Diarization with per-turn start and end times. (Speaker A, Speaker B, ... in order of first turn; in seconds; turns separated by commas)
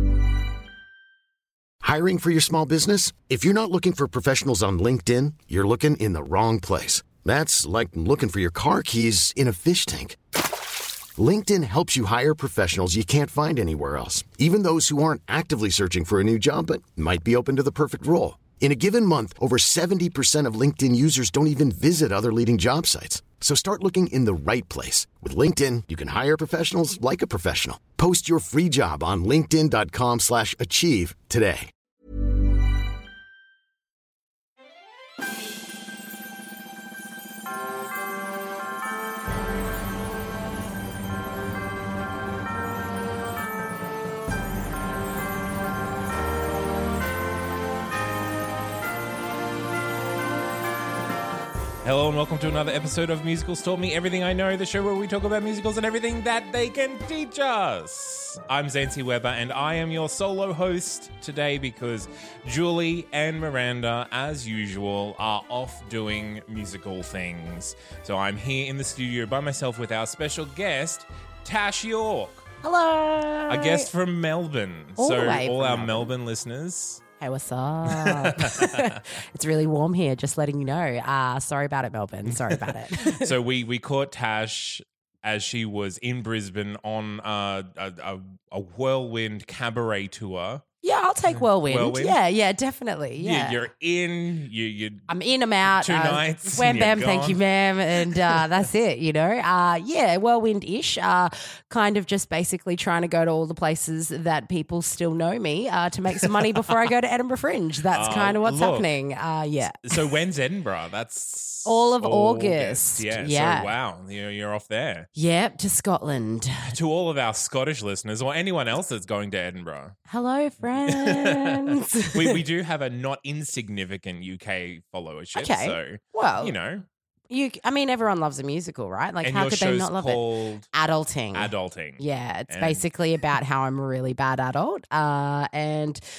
Speaker A: 1.8-10.2, Speaker A: 11.2-31.7, Speaker B: 51.8-72.5, Speaker C: 72.6-73.9, Speaker B: 73.5-77.0, Speaker C: 75.0-76.1, Speaker C: 77.2-83.3, Speaker B: 77.9-79.0, Speaker B: 82.3-90.6, Speaker C: 90.8-93.6, Speaker B: 91.3-92.2, Speaker B: 93.2-95.1, Speaker C: 95.1-110.0, Speaker B: 95.7-97.4, Speaker B: 98.0-98.4, Speaker B: 107.9-108.9, Speaker B: 109.8-115.1, Speaker C: 111.6-113.7, Speaker C: 115.1-116.7, Speaker B: 116.7-120.0, Speaker C: 120.1-122.4, Speaker B: 120.8-126.8, Speaker C: 125.3-126.5, Speaker C: 127.3-136.0, Speaker B: 129.2-130.7, Speaker B: 131.3-132.8